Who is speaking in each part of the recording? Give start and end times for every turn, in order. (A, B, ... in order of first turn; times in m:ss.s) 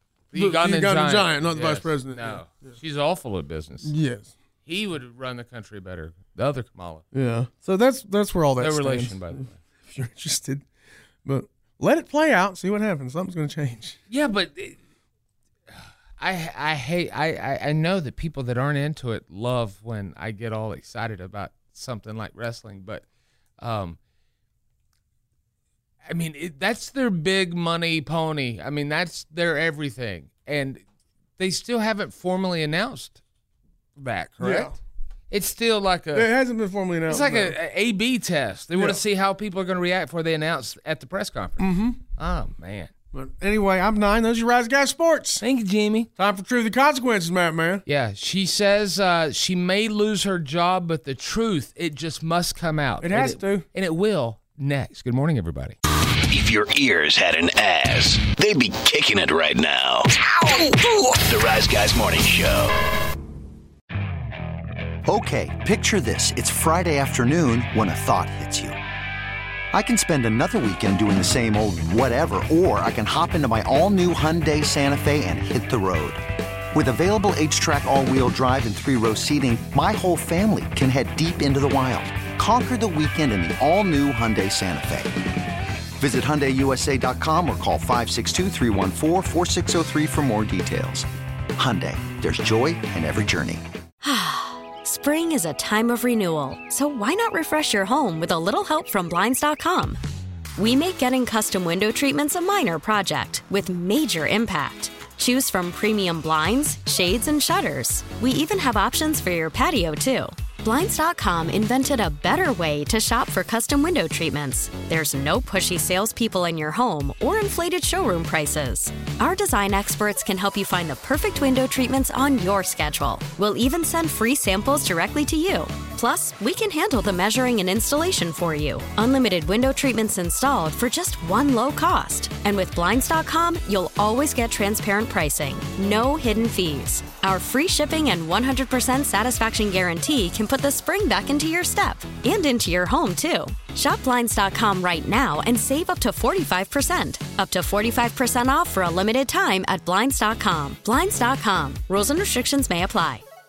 0:00.3-0:03.9 A
0:00.3-0:02.7 B
0:03.8-0:04.3 B
0:04.6-0:07.0 A
0:07.1-0:10.6 B
0:08.6-0:09.6 A
0:11.2-0:14.0 B
0:14.1-0:14.8 A
0:16.2-0:23.0 A
0:23.6-0:24.0 A
0:26.0-0:30.8 A
0:31.4-0:33.2 A
0:34.0-0:34.7 A
0:34.4-0:34.7 B
0:35.3-0:36.3 A
0:36.1-0:37.5 B
0:37.1-0:42.9 A
0:38.7-0:39.0 B
0:41.6-0:42.0 B
0:43.1-0:45.4 B
0:45.4-0:46.1 A
0:46.2-0:47.8 B
0:47.8-0:55.8 A
0:53.0-0:53.6 B
0:56.3-1:02.8 C
1:05.0-1:08.8 D
1:09.7-1:25.1 D
1:26.0-1:33.6 D
1:34.0-1:40.0 E
1:40.6-2:33.2 E